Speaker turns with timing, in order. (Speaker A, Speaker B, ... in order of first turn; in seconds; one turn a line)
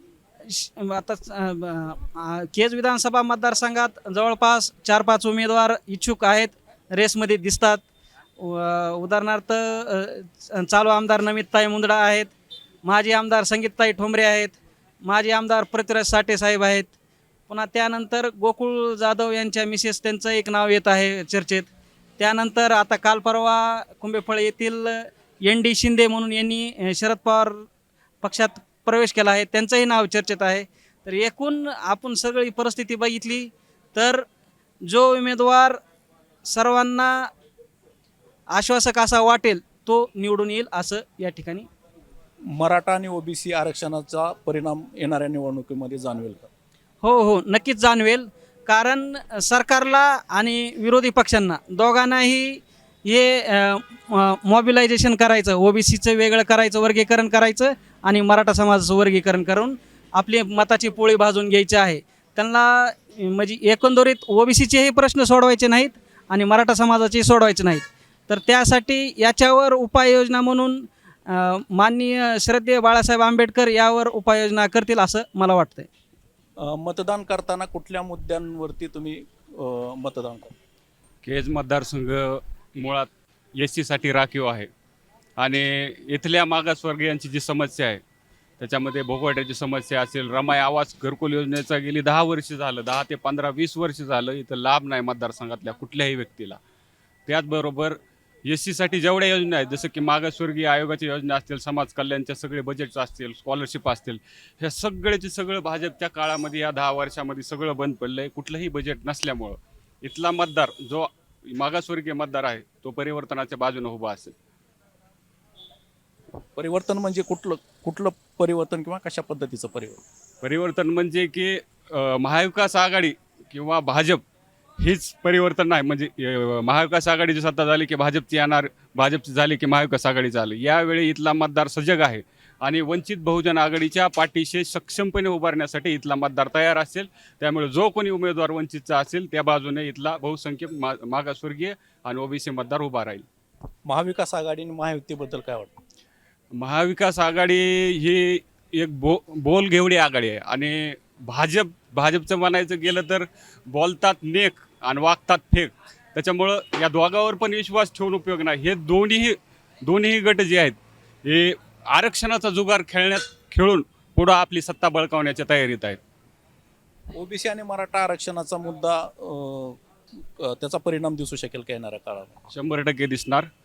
Speaker A: 0.5-7.8
Speaker A: 8.4-12.3
Speaker A: 12.8-16.9
Speaker A: 17.5-27.6
Speaker A: 28.2-34.2
Speaker A: 34.9-35.8
Speaker A: 36.5-37.2
Speaker A: 38.5-41.7
Speaker B: 42.4-46.5
Speaker A: 47.0-75.9
Speaker B: 76.6-80.5
Speaker C: 81.2-84.7
Speaker C: 85.4-88.0
Speaker C: 88.6-96.6
Speaker C: 97.3-114.3
Speaker B: 116.5-120.0
Speaker C: 120.4-124.2
Speaker C: 124.8-143.2
Speaker B: 143.8-145.8
Speaker C: 146.6-166.0
Speaker B: 167.1-172.4
Speaker C: 172.5-173.4